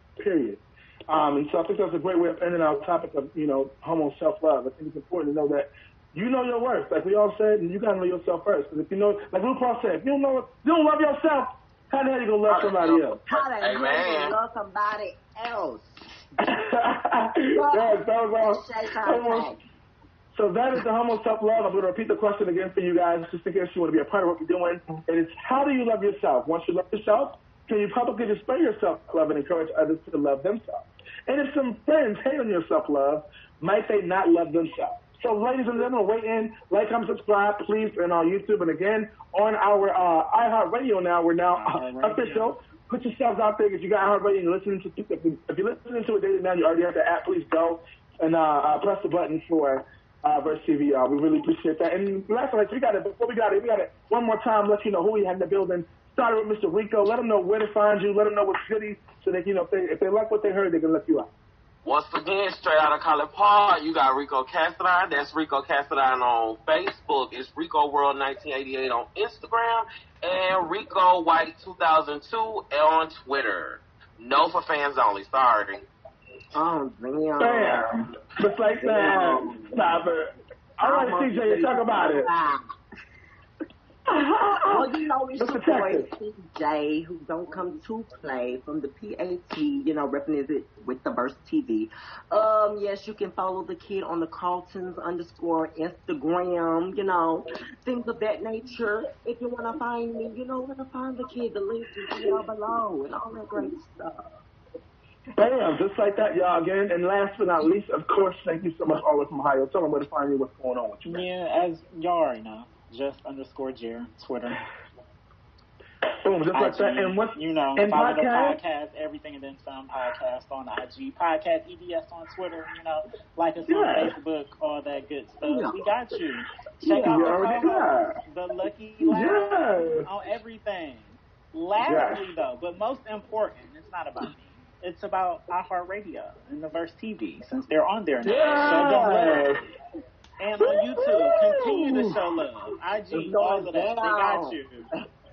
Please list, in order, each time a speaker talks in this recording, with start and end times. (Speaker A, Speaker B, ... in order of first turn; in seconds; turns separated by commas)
Speaker A: 0.2-13.2, Speaker B: 12.5-14.4, Speaker C: 13.3-15.8, Speaker A: 16.5-19.6, Speaker C: 17.6-19.6, Speaker A: 20.3-61.3, Speaker D: 41.5-42.5, Speaker B: 61.8-75.8, Speaker C: 76.5-77.8, Speaker A: 77.4-82.3, Speaker C: 78.7-79.8, Speaker C: 80.8-82.6, Speaker A: 84.1-84.8, Speaker C: 84.7-104.3, Speaker A: 85.4-86.1, Speaker A: 105.3-111.3, Speaker D: 111.0-114.7, Speaker A: 116.2-118.6, Speaker D: 116.5-139.5, Speaker A: 123.7-124.2, Speaker C: 125.4-125.8, Speaker C: 126.9-127.2, Speaker A: 127.0-128.1, Speaker A: 129.0-130.1, Speaker A: 131.8-132.3, Speaker A: 138.2-139.6, Speaker B: 138.3-138.9, Speaker D: 140.4-144.9, Speaker A: 140.9-142.2, Speaker C: 143.1-144.6